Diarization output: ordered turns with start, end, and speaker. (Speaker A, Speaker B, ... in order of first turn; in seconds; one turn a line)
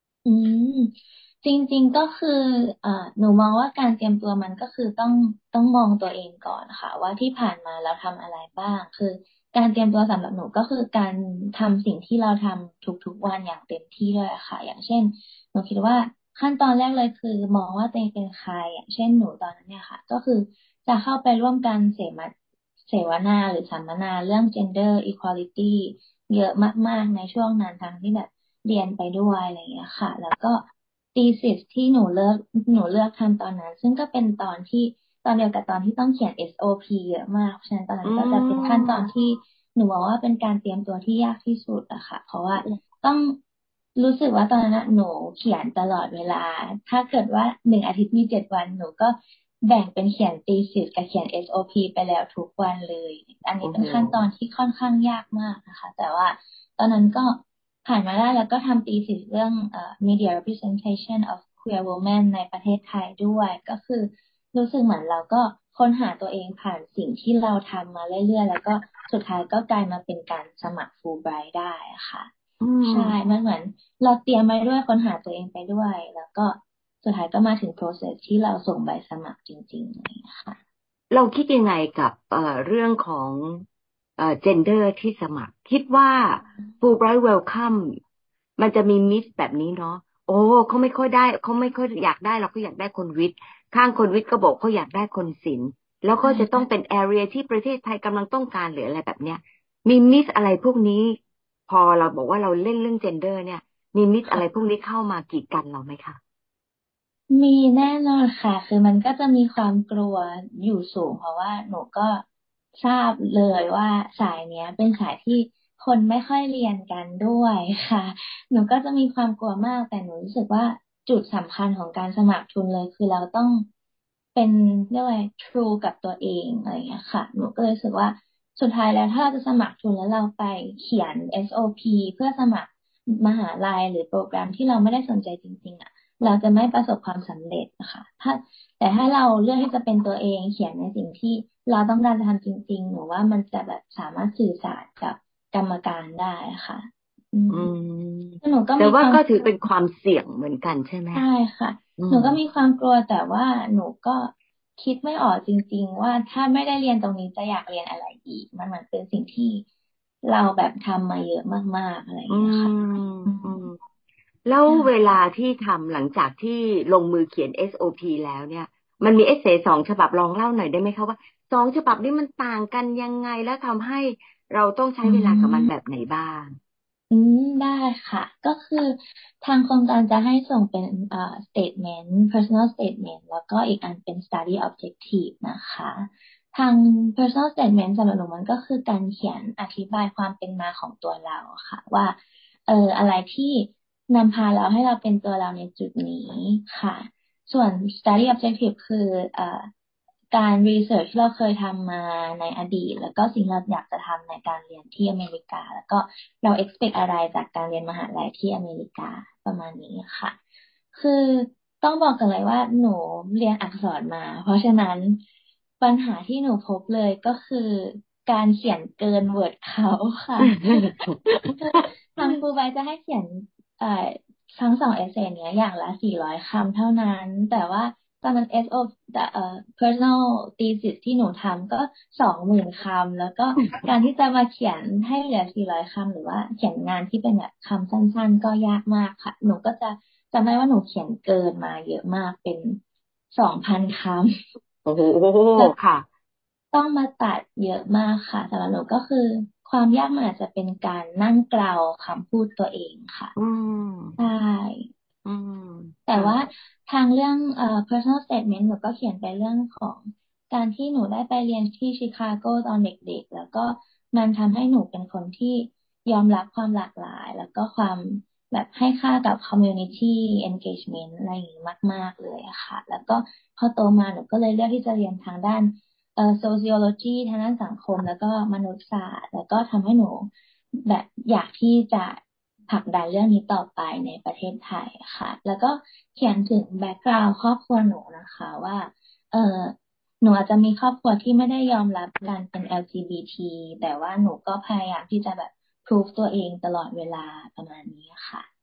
Speaker A: 0.2-22.3
Speaker A: 22.9-43.4
Speaker B: 38.0-39.1
Speaker A: 44.0-72.3
Speaker B: 53.6-54.2
Speaker B: 72.6-73.2
Speaker A: 72.8-80.6
Speaker B: 81.1-83.6
Speaker B: 84.2-88.0
Speaker B: 88.6-106.2
Speaker A: 96.2-96.6
Speaker A: 107.3-112.2
Speaker A: 112.8-123.7
Speaker A: 124.3-147.7
Speaker B: 147.5-151.2
Speaker A: 148.4-149.5
Speaker A: 151.1-159.6
Speaker B: 152.0-152.4
Speaker A: 160.2-162.7
Speaker B: 162.3-163.7
Speaker A: 163.2-163.7
Speaker B: 164.4-176.5
Speaker A: 175.0-175.7
Speaker A: 177.1-199.7
Speaker A: 200.3-210.4
Speaker A: 210.9-215.2
Speaker A: 215.8-220.8
Speaker B: 220.4-222.4
Speaker A: 221.5-242.8
Speaker A: 243.3-244.3
Speaker B: 244.8-246.1
Speaker A: 246.7-253.3
Speaker B: 253.3-254.2
Speaker A: 254.2-254.9
Speaker B: 255.2-256.4
Speaker A: 256.1-280.3
Speaker A: 280.8-298.5